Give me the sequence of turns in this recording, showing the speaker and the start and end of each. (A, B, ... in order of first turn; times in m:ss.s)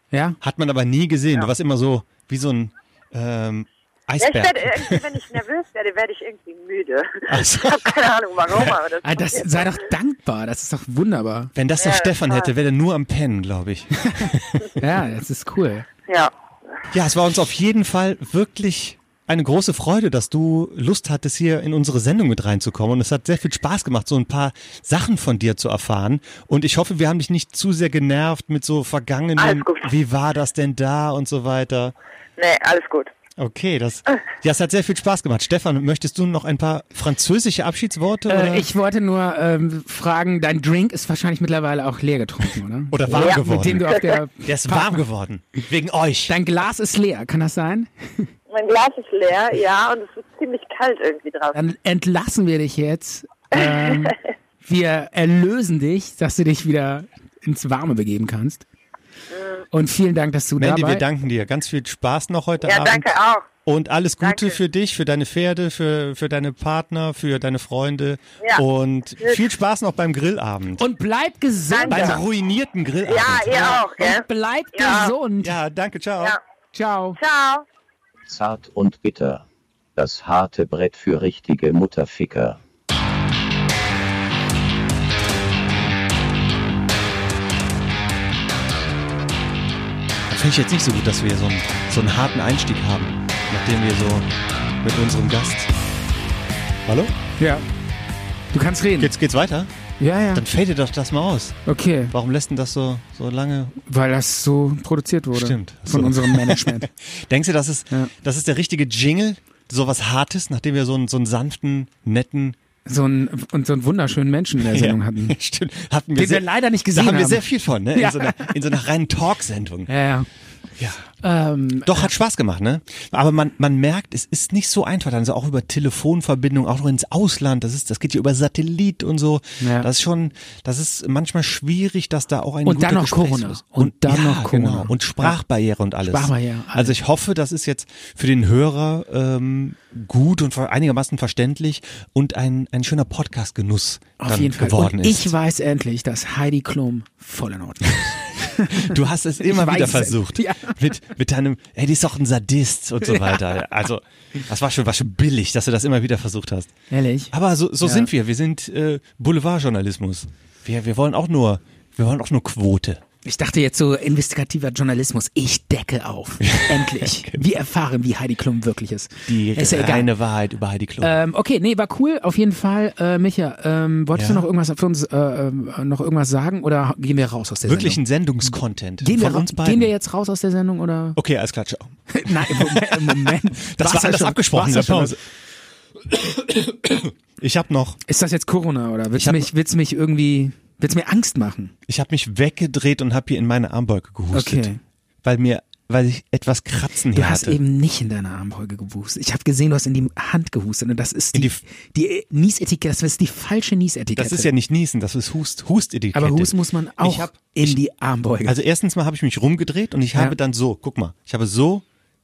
0:00.1-0:00.4 A
0:00.4-0:05.2 B
0:04.2-0:09.9 C
0:07.3-0:08.8 B
0:09.0-0:11.5 A
0:11.6-0:14.7 B
0:11.8-0:12.5 C
0:14.8-0:15.9 A
0:16.1-0:16.3 C
0:16.9-0:32.0 B
0:29.4-0:29.9 C
0:32.4-0:33.1 C
0:33.4-0:38.7 B
0:38.3-0:45.0 A
0:42.9-0:43.9 B
0:43.9-0:44.2 C
0:44.4-0:46.3 B
0:46.3-0:48.3 A
0:48.5-0:51.6 C
0:51.5-0:58.7 A
0:53.6-0:54.1 C
0:59.3-0:59.7 C
0:59.7-1:01.0 A
1:00.6-1:03.1 B
1:02.6-1:03.5 C
1:03.6-1:10.8 B
1:04.2-1:04.6 C
1:10.8-1:12.2 A
1:11.7-1:12.2 C
1:11.9-1:13.8 B
1:13.1-1:15.1 C
1:14.0-1:15.6 A
1:15.4-1:16.4 B
1:16.7-1:17.2 A
1:17.2-1:17.6 C
1:18.3-1:19.4 D
1:20.0-1:22.6 D
1:30.3-1:34.3 B
1:34.8-1:35.7 B
1:36.9-1:37.1 B
1:37.4-1:37.6 A
1:38.5-1:39.2 A
1:39.0-1:39.7 B
1:40.0-1:40.4 A
1:40.3-1:41.6 B
1:41.7-1:42.1 A
1:42.1-1:43.8 B
1:43.9-1:46.9 A
1:45.3-1:52.6 B
1:52.9-1:55.4 A
1:54.6-1:59.9 B
1:56.2-1:58.6 A
1:59.9-2:00.3 A
2:00.8-2:01.1 B
2:01.2-2:02.1 A
2:01.8-2:25.4 B
2:09.6-2:09.9 A
2:12.6-2:15.4 A
2:16.0-2:17.0 A
2:24.2-2:30.8 A
2:28.0-2:36.7 B
2:33.0-2:33.6 A
2:36.9-2:38.1 A
2:37.3-2:43.0 B
2:43.2-2:50.1 A
2:46.4-2:47.4 B
2:49.3-2:51.2 B
2:51.0-3:01.2 A
2:54.2-2:54.4 B
2:57.6-2:59.9 B
3:01.2-3:05.2 B
3:02.1-3:05.2 A
3:07.4-3:08.0 B
3:08.1-3:11.7 A
3:09.2-3:09.5 B
3:11.9-3:14.7 B
3:14.3-3:14.8 A
3:15.2-3:17.6 B
3:17.1-3:24.5 A
3:21.3-3:21.6 B
3:24.2-3:27.8 B
3:26.1-3:28.6 A
3:28.4-3:31.8 B